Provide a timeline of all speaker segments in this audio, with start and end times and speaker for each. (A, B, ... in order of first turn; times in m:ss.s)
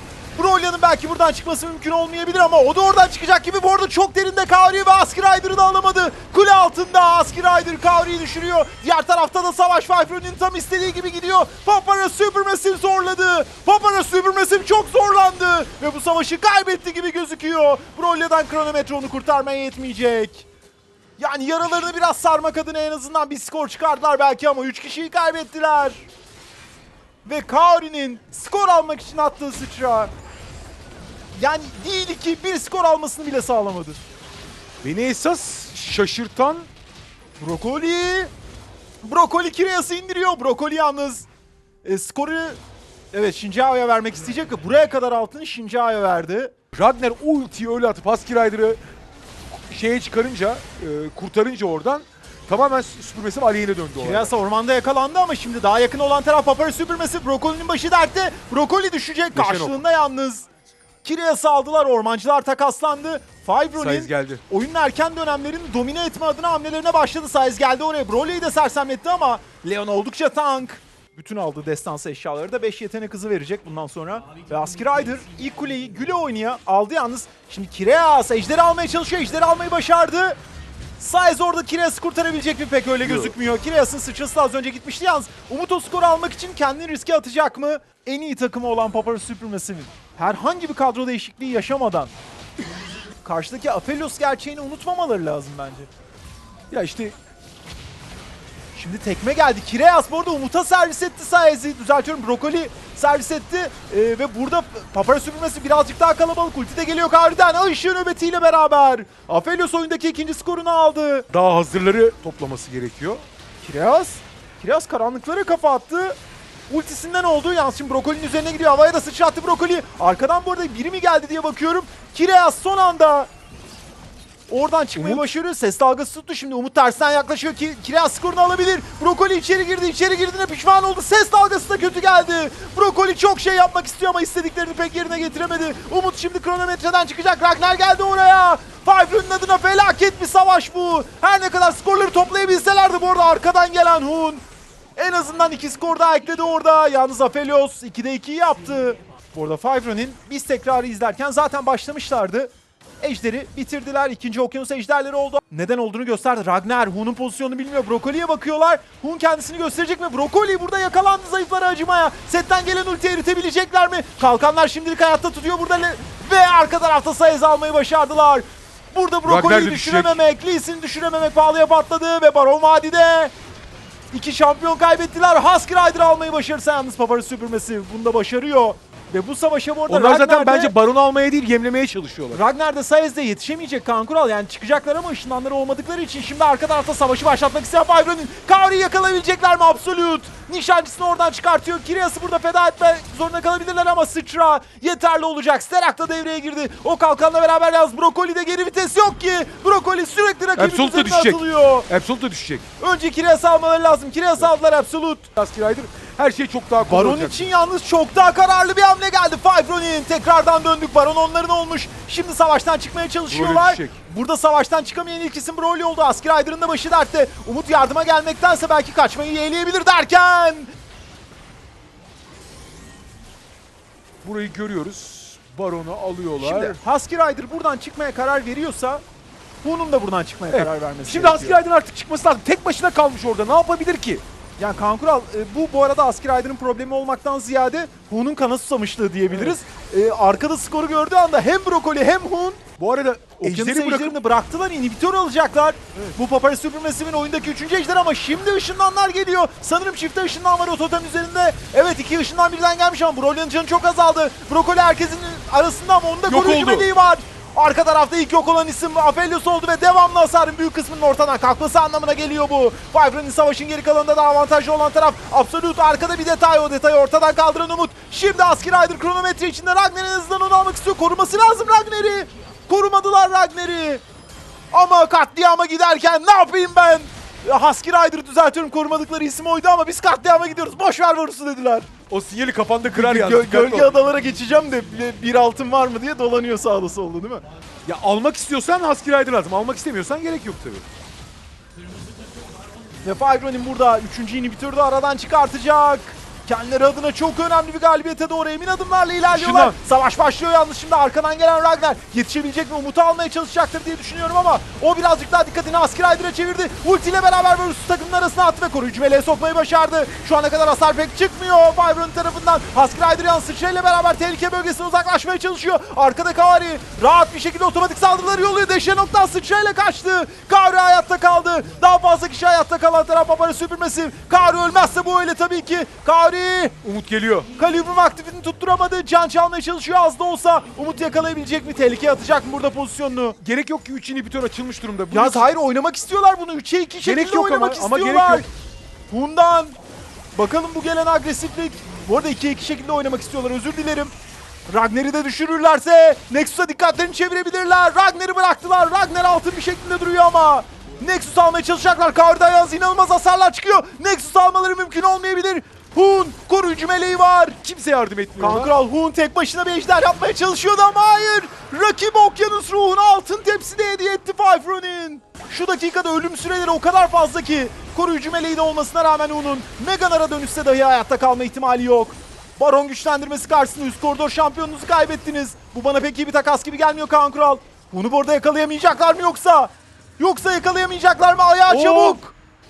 0:00.4-0:20.5 A
0:21.2-0:26.0 A
0:27.2-0:30.1 A
0:31.4-0:34.0 A
0:34.8-0:36.7 B
0:37.4-0:38.3 A
0:39.0-0:41.3 A
0:41.8-0:42.6 A
0:43.1-0:46.6 A
0:46.7-0:48.8 B
0:49.7-0:54.3 B
0:54.0-1:00.5 A
0:59.3-0:59.8 B
1:01.0-1:20.4 A
1:03.8-1:04.4 B
1:21.0-1:32.1 A
1:23.0-1:23.3 B
1:33.2-1:35.9 A
1:36.7-1:37.2 B
1:38.7-1:51.3 A
1:51.3-1:53.2 B
1:53.6-1:56.2 A
1:56.7-2:03.3 A
2:04.5-2:24.4 A
2:05.0-2:05.2 B
2:25.0-2:53.3 A
2:49.2-2:50.2 B
2:54.1-3:00.7 A
2:59.9-3:02.4 B
3:02.3-3:21.9 A
3:20.6-3:22.6 B
3:22.8-3:25.3 A
3:25.4-3:27.5 B
3:26.9-3:40.7 A
3:33.3-3:34.0 B
3:44.2-3:46.8 B
3:46.4-3:49.0 A
3:49.6-3:51.6 A
3:50.5-3:54.2 B
3:54.6-4:02.6 A
3:59.3-3:59.6 B
4:02.8-4:04.2 B
4:03.4-4:34.0 A
4:16.3-4:16.9 B
4:34.7-4:42.0 A
4:42.0-4:43.9 B
4:42.9-4:47.4 A
4:47.9-4:50.8 B
4:53.0-5:26.8 A
4:59.3-4:59.8 B
5:26.8-5:27.5 B
5:27.6-5:33.4 A
5:33.4-5:35.5 B
5:35.1-5:38.5 A
5:37.0-5:38.5 B
5:39.1-5:39.8 A
5:40.4-5:44.1 A
5:44.7-5:57.6 A
5:57.6-5:58.7 B
5:58.4-6:22.3 A
6:21.7-6:22.2 B